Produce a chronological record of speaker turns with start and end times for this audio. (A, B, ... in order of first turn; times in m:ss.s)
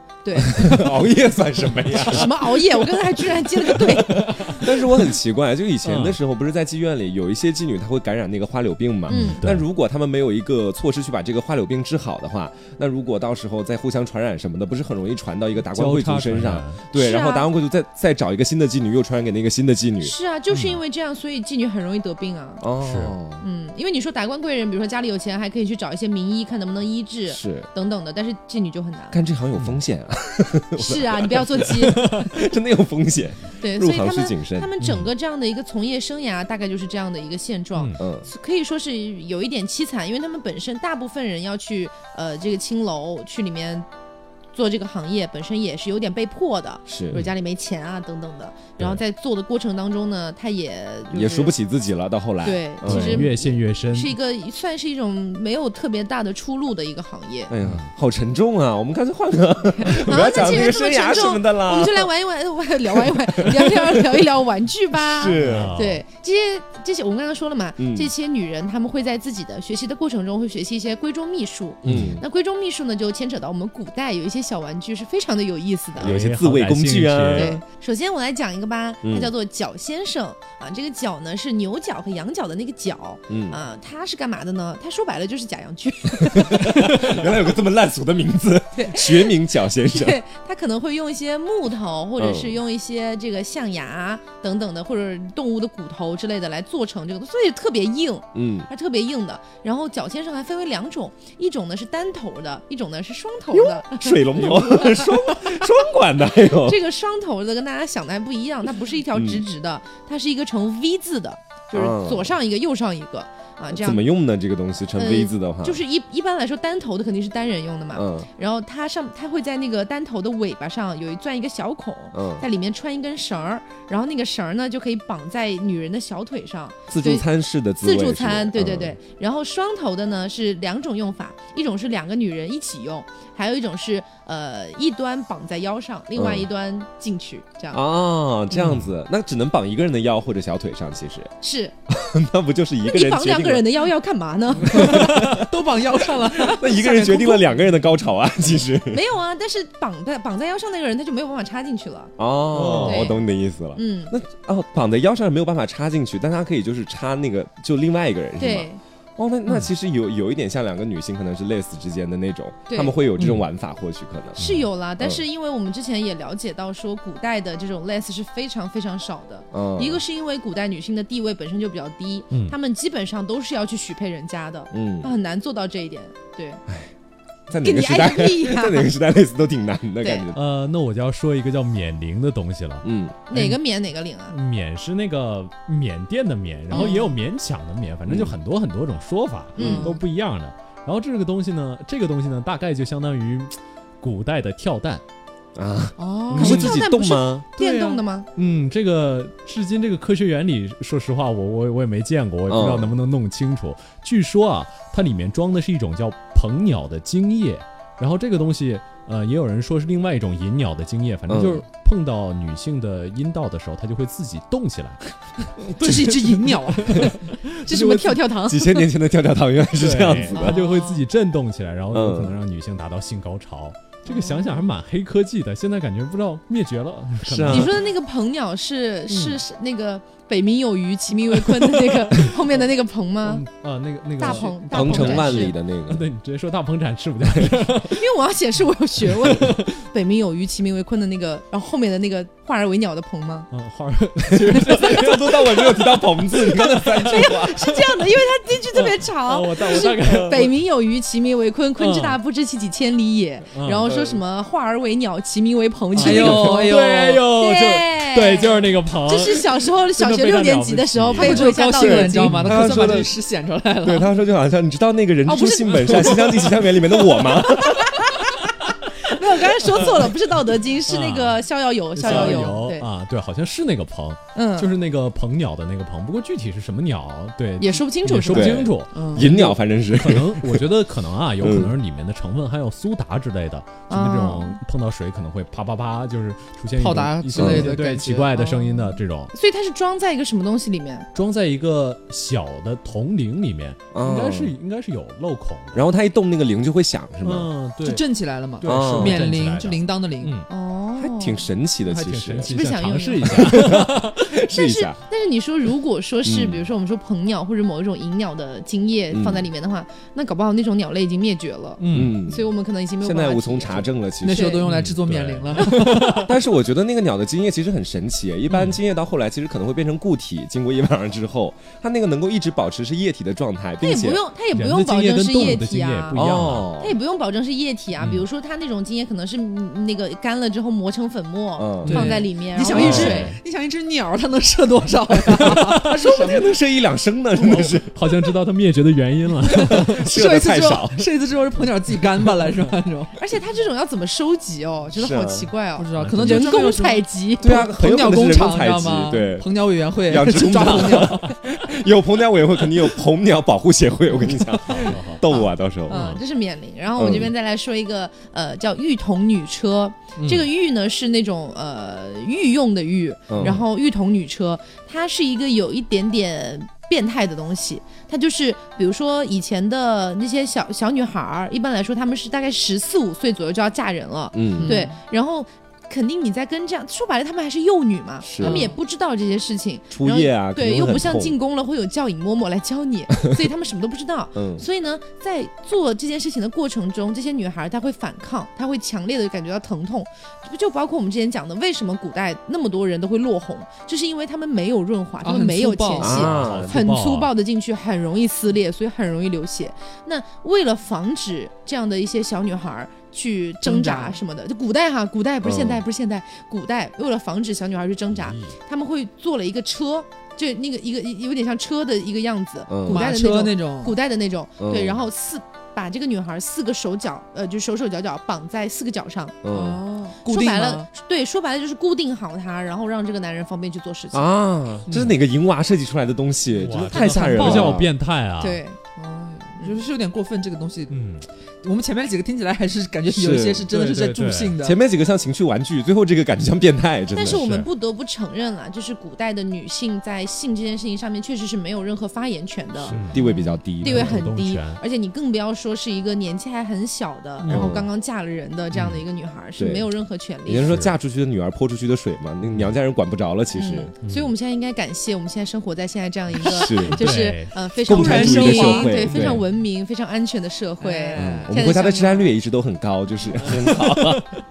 0:00.2-0:00.7 A
0:00.5-0:20.1 B
0:01.9-0:04.6 A
0:05.8-0:06.2 C
0:09.1-0:09.6 C
0:09.1-0:09.4 A
0:15.7-0:16.8 C
0:16.9-0:17.5 A
0:20.0-0:22.6 A
0:20.5-0:20.8 C
0:22.6-0:23.4 B
0:22.8-0:23.2 C
0:23.4-0:29.2 A
0:27.3-0:27.7 B
0:29.1-0:34.7 B
0:30.8-0:32.1 A
0:33.6-0:43.9 A
0:34.8-0:35.1 C
0:38.0-0:38.3 B
0:44.5-0:51.5 A
0:46.9-0:47.2 B
0:51.1-0:53.3 B
0:52.4-0:57.5 A
0:52.8-0:54.1 C
0:57.5-1:02.1 B
0:59.8-1:16.2 A
1:03.0-1:04.0 B
1:04.9-1:05.8 B
1:05.3-1:06.0 C
1:07.8-1:08.1 B
1:11.8-1:12.2 C
1:11.8-1:12.2 B
1:16.0-1:17.5 C
1:16.0-1:17.6 B
1:17.3-1:27.2 A
1:19.0-1:19.3 B
1:23.3-1:23.6 B
1:26.2-1:30.2 B
1:28.7-1:45.6 A
1:32.2-1:32.5 B
1:38.3-1:38.7 B
1:43.5-1:46.8 B
1:46.4-1:54.0 A
1:49.1-1:49.4 B
1:51.7-1:52.3 B
1:53.7-1:55.8 B
1:55.0-2:07.2 A
1:57.9-1:58.3 B
2:02.1-2:02.4 B
2:06.9-2:09.0 B
2:07.8-2:17.8 A
2:16.2-2:16.5 B
2:17.7-2:21.3 B
2:18.6-2:18.9 C
2:21.4-2:21.8 A
2:21.9-2:23.8 B
2:22.8-2:25.4 A
2:24.6-2:25.4 B
2:24.8-2:27.5 D
2:26.4-2:29.0 B
2:28.9-2:32.1 A
2:32.2-2:44.4 B
2:32.5-2:33.0 C
2:32.8-2:33.2 A
2:33.7-2:34.1 A
2:38.4-2:38.8 A
2:42.7-2:43.0 A
2:43.2-2:43.4 C
2:44.4-2:44.7 C
2:44.4-2:56.6 A
2:49.5-2:50.0 B
2:52.3-2:52.6 C
2:54.7-2:55.1 B
2:56.7-2:56.9 B
2:57.5-3:00.4 B
2:57.6-2:58.9 A
3:00.3-3:03.6 C
3:02.8-3:03.2 B
3:03.3-3:04.3 A
3:04.3-3:15.0 C
3:06.7-3:07.1 A
3:06.7-3:07.1 D
3:08.0-3:08.4 B
3:09.5-3:10.0 A
3:09.6-3:10.0 D
3:15.5-3:17.4 B
3:16.0-3:18.3 A
3:16.3-3:16.8 C
3:17.6-3:37.0 C
3:22.5-3:22.9 B
3:31.3-3:31.6 B
3:35.8-3:37.2 D
3:35.8-3:37.0 A
3:37.6-3:38.8 A
3:37.7-3:40.6 B
3:39.7-3:47.8 C
3:40.3-3:41.0 A
3:41.9-3:42.4 B
3:44.1-3:44.6 A
3:47.2-3:47.7 B
3:47.4-3:53.4 A
3:49.1-3:49.4 C
3:53.2-3:58.0 C
3:54.2-3:55.5 A
3:54.7-3:56.0 B
3:57.2-3:57.7 B
3:57.8-4:03.5 A
3:59.1-3:59.7 C
4:03.5-4:06.0 C
4:04.4-4:07.8 B
4:06.6-4:22.4 A
4:06.6-4:07.3 C
4:08.7-4:10.5 C
4:10.0-4:10.4 B
4:11.8-4:12.2 C
4:13.5-4:13.9 C
4:13.9-4:14.2 B
4:15.9-4:21.6 C
4:16.0-4:17.2 D
4:21.1-4:24.1 D
4:21.7-4:23.1 B
4:22.2-4:23.0 C
4:23.8-4:27.9 B
4:25.2-4:32.9 A
4:25.8-4:26.2 C
4:30.9-4:49.3 C
4:32.1-4:32.4 D
4:34.3-4:34.7 A
4:37.6-4:38.7 A
4:38.3-4:40.7 B
4:38.9-4:39.4 D
4:41.4-4:41.7 B
4:43.9-4:44.6 A
4:46.8-4:48.9 D
4:47.3-4:47.7 B
4:49.3-4:51.1 A
4:51.1-4:55.9 C
4:53.9-4:54.5 B
4:55.7-4:57.5 B
4:57.2-4:58.0 C
4:57.8-5:00.3 D
4:58.6-5:00.5 C
4:58.6-4:59.3 B
5:00.5-5:01.4 A
5:01.0-5:02.5 B
5:01.8-5:04.3 C
5:02.5-5:03.8 A
5:03.2-5:05.0 B
5:04.5-5:14.6 A
5:06.2-5:06.6 B
5:09.1-5:09.4 B
5:11.8-5:12.2 C
5:11.9-5:12.5 B
5:13.0-5:14.6 B
5:14.2-5:16.3 D
5:14.7-5:16.1 C
5:15.6-5:16.2 A
5:16.2-5:24.2 B
5:18.5-5:18.8 C
5:23.8-5:26.2 A
5:24.5-5:26.7 C
5:26.1-5:26.9 B
5:26.8-5:33.3 A
5:28.0-5:28.2 C
5:31.6-5:32.0 B
5:31.8-5:36.6 D
5:31.9-5:33.4 C
5:32.8-5:33.2 B
5:35.2-5:35.9 C
5:35.9-5:38.0 B
5:37.6-5:40.1 C
5:39.4-5:43.2 D
5:39.7-5:41.1 B
5:43.2-5:47.7 A
5:44.9-5:45.5 B
5:45.8-5:51.4 D
5:46.0-5:46.7 C
5:47.4-5:49.5 B
5:50.0-5:56.1 B
5:54.3-5:55.4 D
5:54.7-5:55.2 C
5:55.3-6:59.4 A
5:55.9-5:56.2 C
5:57.0-5:57.3 B
6:00.2-6:00.5 C
6:03.3-6:03.6 B
6:14.3-6:14.7 B
6:14.6-6:15.0 D
6:18.2-6:18.7 B
6:18.4-6:18.8 D
6:19.9-6:21.4 B
6:24.3-6:24.6 B
6:35.2-6:36.2 D
6:36.0-6:36.8 B
6:36.0-6:37.3 C
6:43.6-6:44.2 D
6:45.4-6:45.8 B
6:52.7-6:53.1 B
6:52.9-6:53.9 D
6:54.6-6:55.0 B
6:59.4-6:59.8 B
6:59.5-7:00.9 D
7:00.2-7:04.3 A
7:04.1-7:07.9 B
7:04.9-7:05.1 D
7:06.5-7:08.6 C
7:06.9-7:07.8 D
7:08.4-7:08.8 A
7:09.0-7:11.1 D
7:09.5-7:09.8 A
7:10.9-7:11.2 C
7:11.6-7:14.8 D
7:13.1-7:13.7 B
7:13.7-7:14.6 C
7:14.6-7:17.4 B
7:17.1-7:30.7 A
7:17.2-7:17.7 C
7:22.8-7:24.2 B
7:22.9-7:23.2 C
7:23.8-7:24.8 C
7:27.4-7:27.8 C
7:27.5-7:27.9 B
7:28.7-7:29.0 C
7:29.6-7:29.9 B
7:30.4-7:33.9 B
7:30.6-7:30.9 C
7:32.4-7:32.7 C
7:33.5-7:42.3 A
7:34.0-7:34.3 C
7:36.4-7:37.1 B
7:36.4-7:37.6 C
7:37.9-7:39.4 B
7:37.9-7:39.1 D
7:39.0-7:39.4 C
7:40.8-7:41.6 D
7:41.2-7:44.3 B
7:43.4-7:44.3 C